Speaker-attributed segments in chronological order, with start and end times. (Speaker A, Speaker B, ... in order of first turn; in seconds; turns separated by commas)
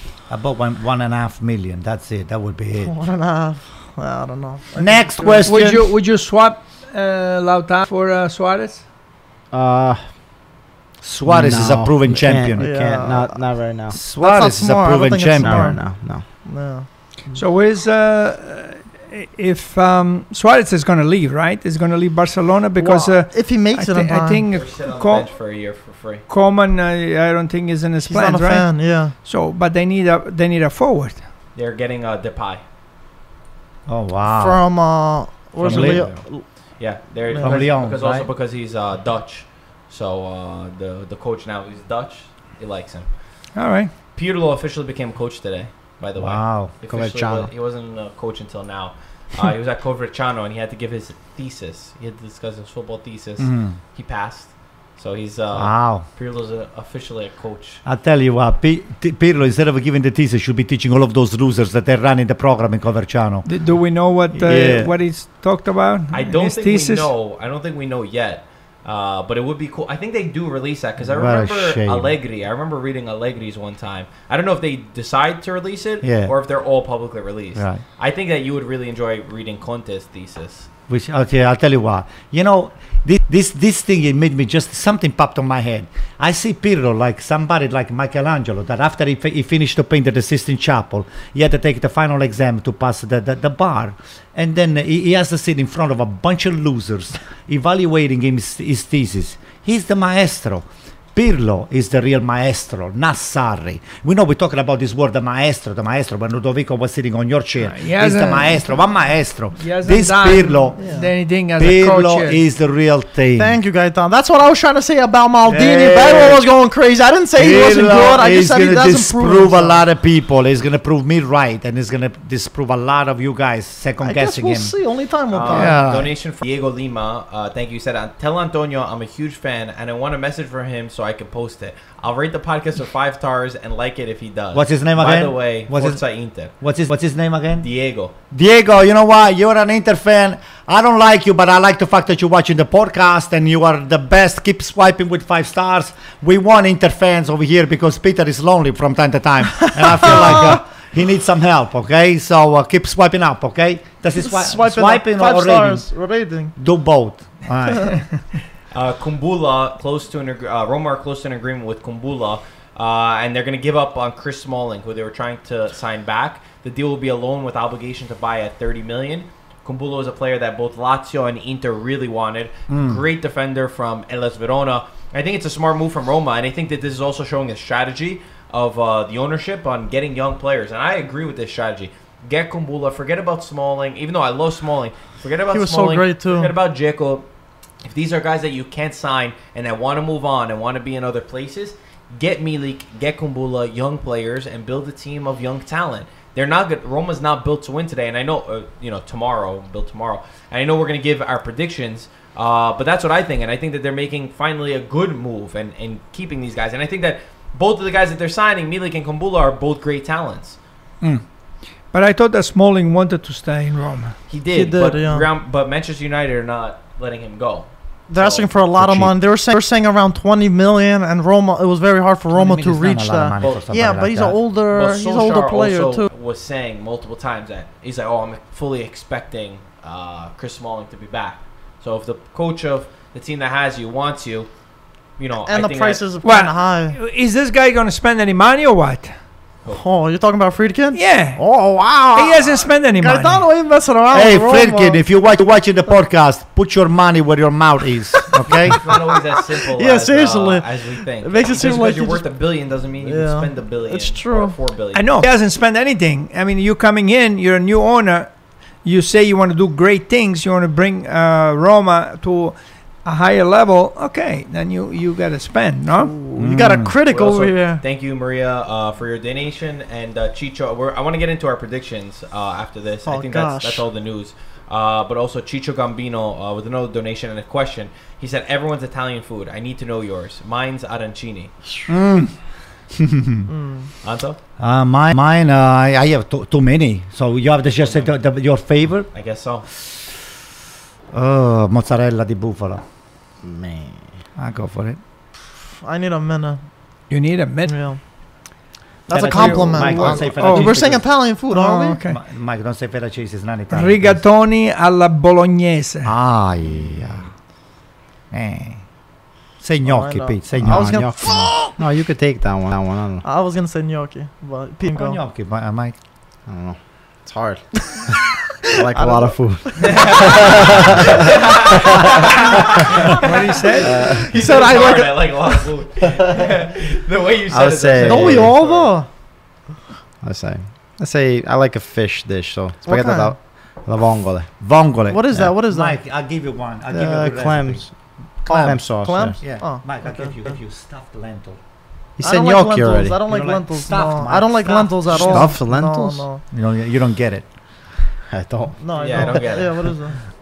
Speaker A: 0.3-2.9, Speaker B: 2.8-5.5, Speaker A: 4.8-5.9, Speaker C: 5.4-8.8, Speaker D: 9.5-10.0, Speaker A: 11.0-12.7, Speaker D: 11.2-14.0, Speaker B: 12.6-13.4, Speaker A: 13.9-15.8, Speaker B: 14.0-16.9, Speaker D: 15.4-16.3, Speaker C: 17.3-25.3, Speaker B: 22.8-24.5, Speaker E: 24.5-26.2, Speaker C: 26.3-31.2, Speaker B: 28.0-29.1, Speaker E: 31.5-32.6, Speaker A: 33.9-34.6, Speaker B: 34.3-36.5, Speaker A: 35.6-36.2, Speaker E: 35.7-36.2, Speaker E: 36.8-43.1, Speaker B: 37.3-37.7, Speaker A: 37.4-38.2, Speaker C: 43.5-43.9, Speaker E: 44.1-57.8, Speaker A: 46.2-46.7, Speaker D: 46.9-47.5, Speaker A: 53.4-53.8, Speaker A: 55.5-56.0, Speaker A: 57.8-63.5, Speaker C: 63.4-67.1, Speaker A: 64.4-64.9, Speaker E: 66.1-80.7, Speaker A: 71.1-72.1, Speaker A: 76.0-76.3, Speaker A: 77.5-77.8, Speaker A: 80.9-110.8, Speaker C: 107.6-108.7, Speaker C: 109.6-112.4, Speaker B: 110.8-111.1, Speaker A: 111.6-113.6, Speaker B: 113.3-119.8, Speaker A: 115.5-116.4, Speaker A: 117.3-124.7, Speaker B: 124.0-126.0, Speaker E: 125.3-136.5, Speaker A: 125.5-126.0, Speaker A: 134.5-136.0, Speaker A: 136.5-137.7, Speaker E: 137.6-138.1, Speaker A: 138.3-155.8, Speaker B: 149.6-150.6, Speaker B: 154.2-156.5, Speaker A: 156.6-158.0, Speaker E: 158.7-187.3, Speaker A: 172.7-173.0, Speaker B: 185.5-186.5, Speaker E: 187.8-210.6, Speaker C: 211.9-214.2, Speaker E: 214.3-218.5, Speaker B: 214.5-215.3, Speaker B: 218.1-226.1, Speaker A: 218.8-219.1, Speaker A: 222.3-224.4, Speaker E: 223.4-223.6, Speaker E: 224.7-234.5, Speaker E: 235.2-236.0, Speaker B: 235.4-237.0, Speaker C: 236.2-239.1, Speaker B: 239.7-245.0, Speaker C: 240.9-241.4, Speaker C: 242.1-243.4, Speaker A: 244.1-248.8, Speaker E: 248.7-255.1, Speaker B: 249.6-252.2, Speaker B: 253.0-254.6, Speaker C: 254.9-258.3, Speaker C: 258.8-266.1, Speaker B: 266.0-267.8, Speaker A: 266.4-266.9, Speaker E: 267.0-281.5, Speaker B: 273.1-273.8, Speaker A: 281.9-282.3, Speaker A: 282.9-283.5, Speaker B: 283.5-283.9, Speaker E: 284.0-284.4, Speaker A: 284.6-289.1, Speaker E: 287.7-288.1, Speaker E: 289.1-289.7, Speaker A: 289.8-290.2, Speaker A: 291.1-292.8, Speaker D: 293.4-294.0, Speaker A: 294.4-295.0, Speaker B: 295.6-296.6, Speaker C: 297.1-297.7, Speaker B: 297.7-298.0, Speaker B: 299.1-302.0, Speaker A: 299.1-301.0, Speaker C: 299.2-300.7, Speaker C: 301.5-302.2, Speaker A: 302.1-304.2, Speaker C: 303.7-306.1, Speaker A: 306.0-307.3, Speaker A: 308.3-308.8, Speaker A: 309.6-311.0, Speaker B: 309.9-311.7, Speaker D: 310.6-313.2, Speaker B: 313.2-315.2, Speaker A: 314.9-315.9, Speaker D: 316.5-322.3, Speaker B: 318.6-320.4, Speaker E: 319.8-328.9, Speaker C: 323.1-324.1, Speaker B: 323.1-325.7, Speaker D: 323.8-324.2, Speaker D: 327.5-328.5, Speaker B: 328.0-329.1, Speaker D: 330.2-334.5, Speaker B: 332.9-333.3, Speaker A: 334.6-337.8, Speaker B: 335.1-336.0, Speaker D: 336.9-337.9, Speaker A: 338.4-341.6, Speaker B: 338.5-340.4, Speaker D: 338.5-339.4, Speaker D: 342.2-343.2, Speaker B: 342.2-346.4, Speaker A: 343.3-345.5, Speaker D: 345.1-346.2, Speaker A: 346.5-347.4, Speaker D: 348.3-349.3, Speaker B: 348.8-350.2, Speaker E: 348.9-349.8